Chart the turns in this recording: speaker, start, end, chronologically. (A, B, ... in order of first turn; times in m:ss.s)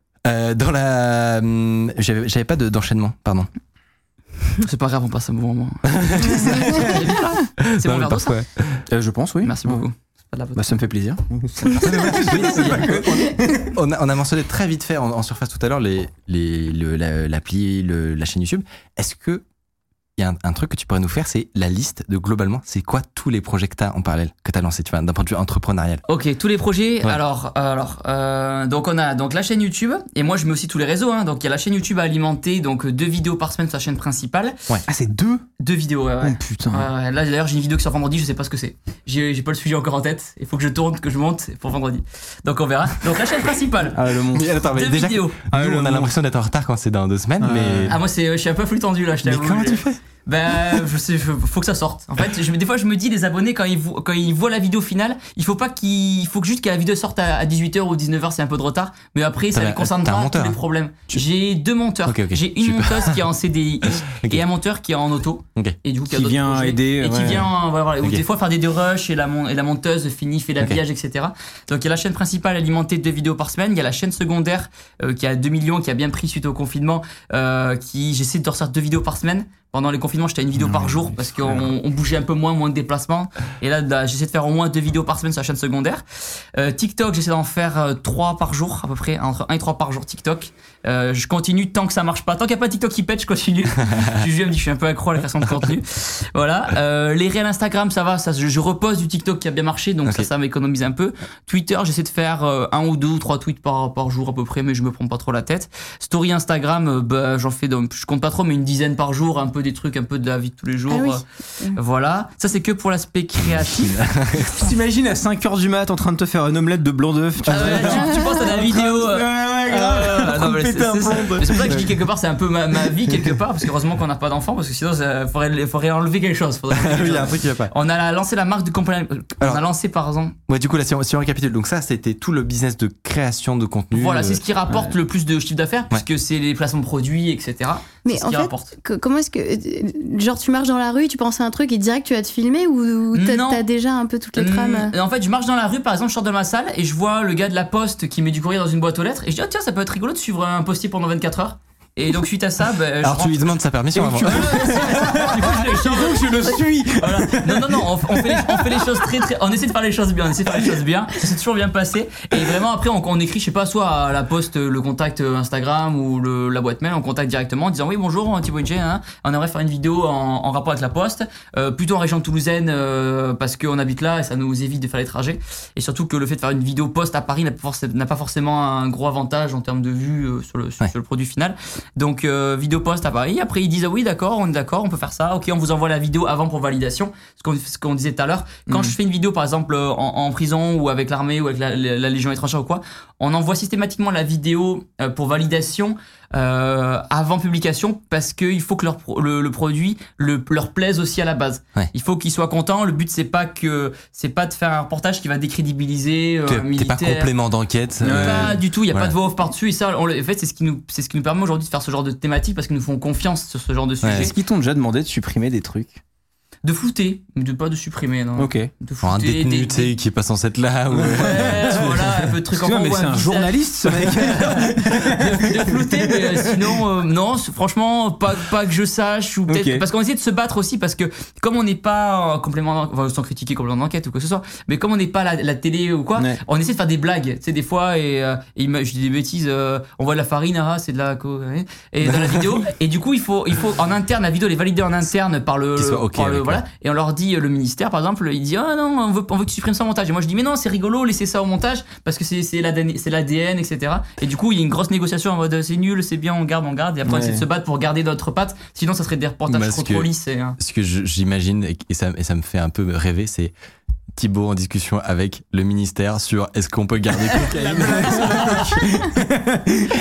0:00.2-0:03.5 A
0:04.6-0:08.4 B
0:05.9-0:08.8 A
0:08.9-0:09.8 C
0:09.4-0:10.6 B
0:10.5-0:13.7 C
0:11.8-0:19.4 A
0:20.2-0:26.0 A
0:26.1-0:34.6 B
0:34.9-0:35.4 C
0:35.6-0:44.0 B
0:36.2-0:36.9 C
0:43.8-0:44.6 C
0:44.3-0:48.0 A
0:44.7-0:45.5 B
0:45.5-0:46.1 C
0:47.4-0:48.0 C
0:47.9-1:26.0 B
0:49.2-0:50.0 A
0:59.5-1:00.6 A
1:02.0-1:03.2 A
1:04.0-1:04.4 A
1:06.1-1:07.5 C
1:20.5-1:21.7 C
1:26.5-1:54.0 B
1:35.4-1:35.8 A
1:50.9-1:51.8 D
1:53.4-1:54.6 A
1:54.5-2:02.0 C
1:57.4-1:58.2 A
1:57.5-2:10.4 B
2:01.4-2:01.9 A
2:06.7-2:07.7 A
2:10.5-2:14.4 A
2:13.9-2:18.7 B
2:18.0-2:24.9 D
2:23.1-2:23.6 B
2:24.3-3:27.3 B
2:33.0-2:35.6 A
2:33.9-2:39.3 C
3:08.7-3:08.9 C
3:26.5-3:29.1 A
3:28.0-3:28.6 C
3:28.2-3:34.3 B
3:34.0-3:34.3 A
3:34.1-3:36.0 C
3:36.6-3:39.9 B
3:38.4-3:38.7 C
3:39.0-3:42.2 A
3:41.0-3:46.8 C
3:41.0-4:20.6 B
3:49.5-3:49.8 C
3:56.2-3:56.4 C
4:02.1-4:02.4 A
4:05.8-4:06.6 A
4:17.0-4:17.4 C
4:19.5-4:23.5 A
4:24.1-4:29.1 A
4:27.3-4:28.7 B
4:27.6-4:29.6 C